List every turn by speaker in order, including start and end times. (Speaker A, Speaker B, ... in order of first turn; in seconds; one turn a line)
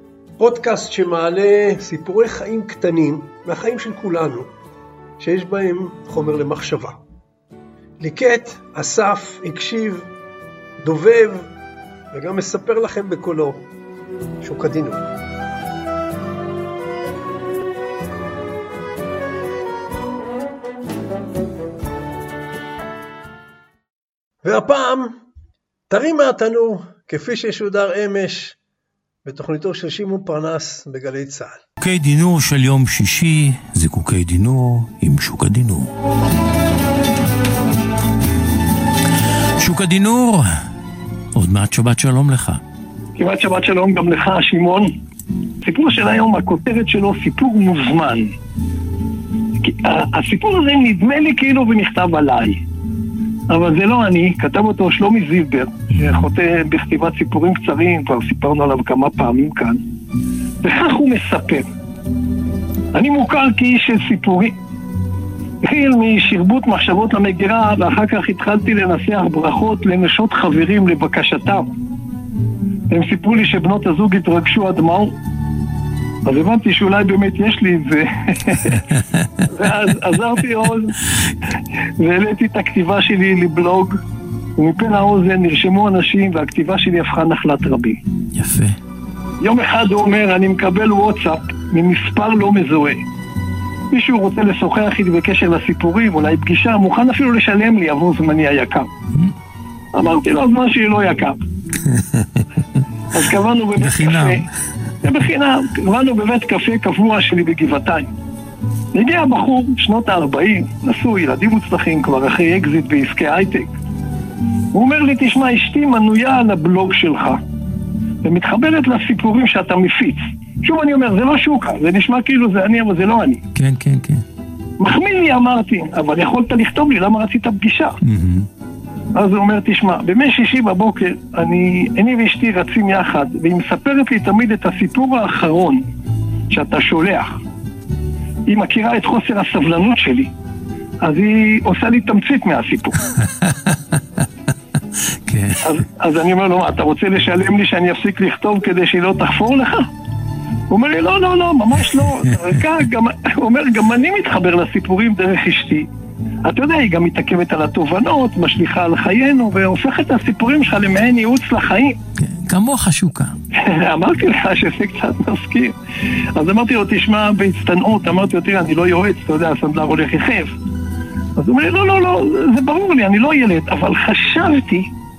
Speaker A: 0.4-4.5
Speaker A: 5.2-7.0
Speaker A: 8.0-10.1
Speaker A: 10.8-11.5
Speaker A: 12.1-13.7
Speaker A: 14.4-15.0
Speaker A: 24.4-25.2
Speaker A: 25.9-28.6
Speaker A: 29.2-31.6
Speaker B: 31.8-35.9
Speaker B: 39.6-40.6
Speaker B: 41.4-42.6
Speaker C: 43.2-44.9
Speaker C: 45.6-48.3
Speaker C: 49.6-52.6
Speaker C: 53.5-59.8
Speaker C: 60.6-61.7
Speaker C: 62.9-64.5
Speaker C: 65.6-71.7
Speaker C: 72.9-75.1
Speaker C: 76.2-81.0
Speaker B: 78.9-79.3
Speaker C: 82.0-84.0
Speaker C: 84.6-88.0
Speaker B: 88.3-88.8
Speaker C: 89.4-93.0
Speaker C: 93.9-98.9
Speaker C: 99.9-101.4
Speaker B: 101.9-102.4
Speaker C: 103.1-104.5
Speaker B: 103.8-104.4
Speaker C: 105.0-108.1
Speaker C: 108.9-113.7
Speaker C: 114.7-117.4
Speaker C: 118.2-123.4
Speaker B: 123.5-124.2
Speaker C: 124.8-128.0
Speaker B: 128.0-128.5
Speaker C: 129.1-135.8
Speaker C: 136.5-137.4
Speaker C: 138.5-140.3
Speaker C: 141.0-143.1
Speaker B: 143.3-143.8
Speaker B: 145.3-145.7
Speaker C: 145.6-149.9
Speaker C: 150.7-155.9
Speaker C: 156.4-162.0
Speaker B: 162.2-163.3
Speaker C: 163.5-165.8
Speaker C: 166.3-170.5
Speaker C: 171.4-174.9